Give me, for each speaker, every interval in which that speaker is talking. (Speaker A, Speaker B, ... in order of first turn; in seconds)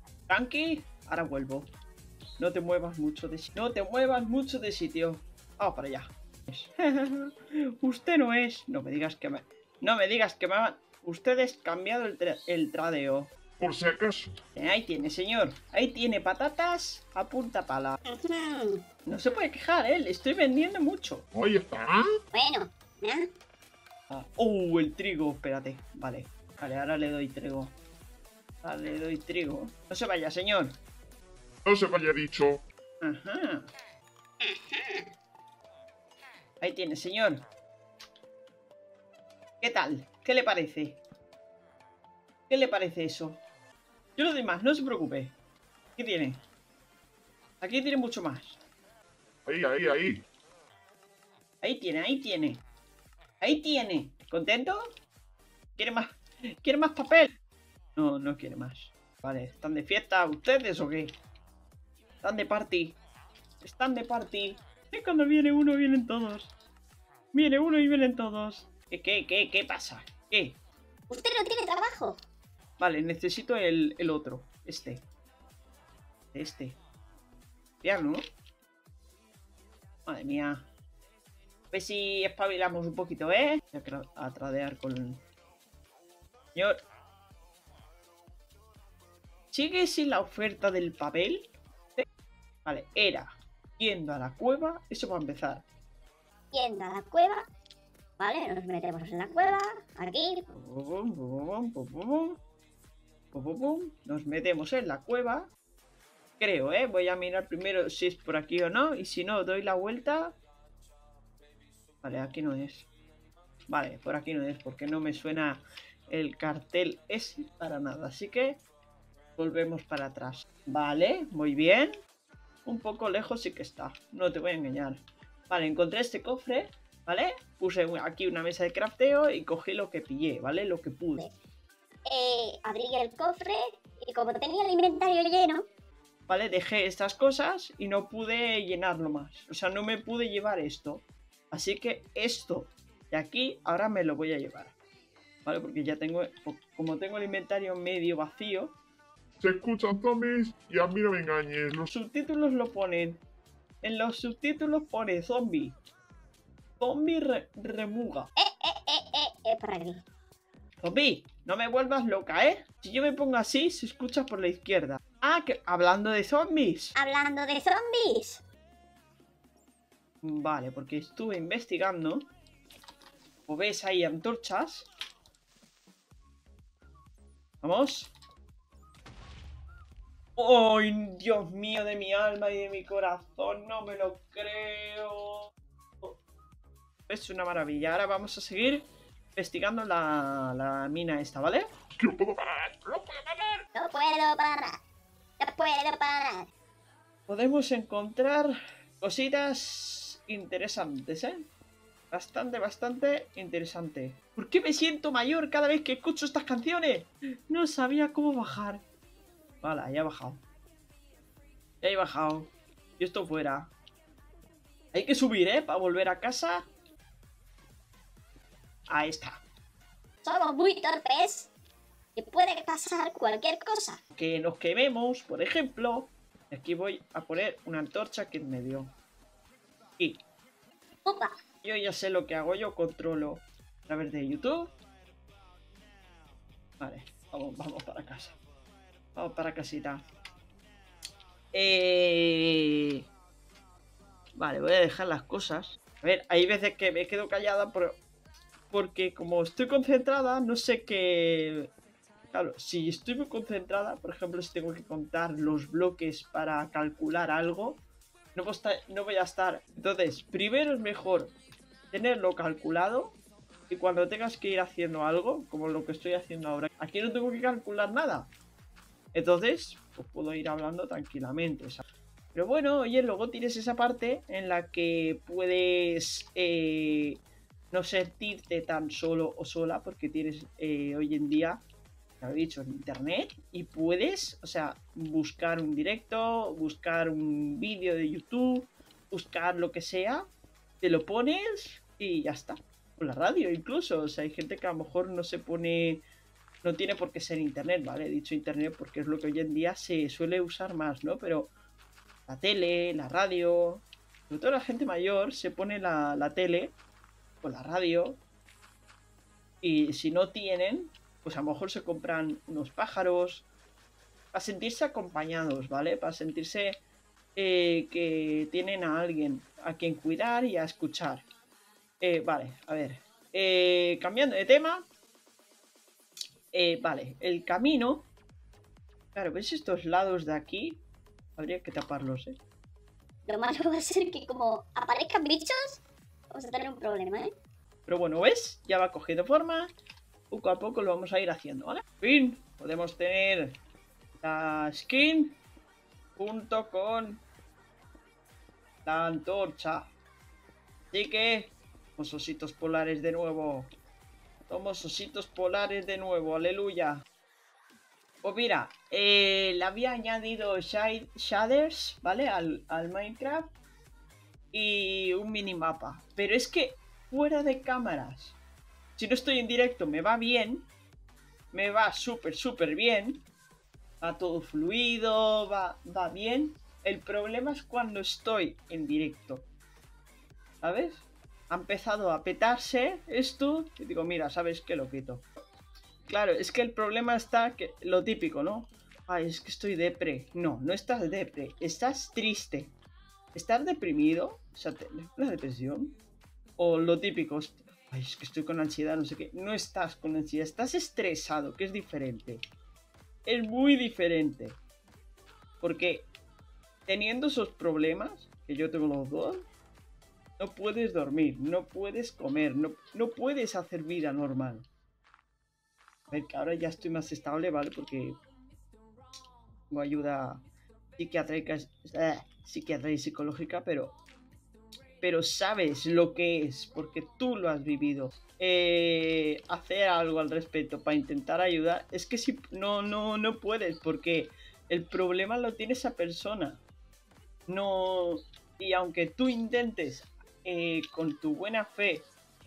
Speaker A: 0.3-1.7, 2.4-13.3, 14.5-18.0, 19.1-21.2, 24.1-27.7, 28.6-30.7, 33.0-33.7, 36.6-37.4, 39.6-41.0, 42.5-43.4, 44.2-45.3, 46.0-46.4, 47.6-48.6, 51.6-52.6, 53.4-54.8, 55.8-57.3, 58.0-61.1, 62.2-63.0, 63.6-66.5, 67.3-70.6, 72.8-75.0, 76.3-76.8, 77.8-78.2, 80.0-80.6, 81.7-85.2, 89.5-92.0, 92.6-95.6, 100.5-102.4, 103.3-105.5, 106.4-110.4, 112.0-112.9, 113.7-118.6, 119.4-121.9, 122.6-131.2, 136.3-144.8, 145.4-148.8, 151.9-153.2, 153.8-155.8, 156.8-158.3, 160.8-166.9, 170.2-172.2, 173.5-174.9, 177.6-178.1, 180.4-186.2, 187.1-191.7, 197.3-201.4, 202.1-208.8, 209.6-210.4, 211.8-213.7, 214.9-216.6, 218.9-219.4, 224.1-228.9, 231.6-234.7, 236.8-238.4, 239.1-240.0, 241.5-243.0, 244.4-248.0, 248.7-251.7, 252.3-257.8, 258.3-261.3, 261.9-263.2, 263.7-268.3, 269.1-271.8, 272.3-277.2, 277.7-281.6, 282.2-290.2, 290.8-296.0, 296.6-301.5, 302.3-306.8, 307.4-308.2, 309.6-313.5, 314.3-316.8, 317.4-321.2, 322.0-324.9, 326.5-328.1, 329.1-330.8, 331.4-332.4, 337.9-339.7, 340.3-343.5, 344.2-345.4, 346.2-347.2, 348.8-349.9, 350.9-353.7, 354.5-357.0, 358.2-363.5, 364.5-368.4, 369.0-370.7, 371.5-373.2, 374.0-379.5, 380.6-385.2, 386.1-392.7, 393.3-396.0, 396.6-402.4, 403.2-404.6, 405.6-406.1, 406.9-409.4, 410.4-414.6, 416.1-418.2, 419.7-420.4, 421.0-424.0, 425.0-436.6, 437.5-442.1
Speaker B: 13.6-14.3, 21.3-22.1, 31.6-32.6, 49.5-50.2, 149.4-151.9, 192.0-193.6
Speaker C: 18.1-18.8, 22.3-23.3, 34.4-35.1, 71.1-72.2, 96.5-97.4, 98.2-100.5, 132.1-135.6, 158.4-160.0, 166.9-168.4, 193.7-194.8, 195.4-196.5, 220.2-221.5, 222.2-224.0, 231.0-231.3, 333.3-337.3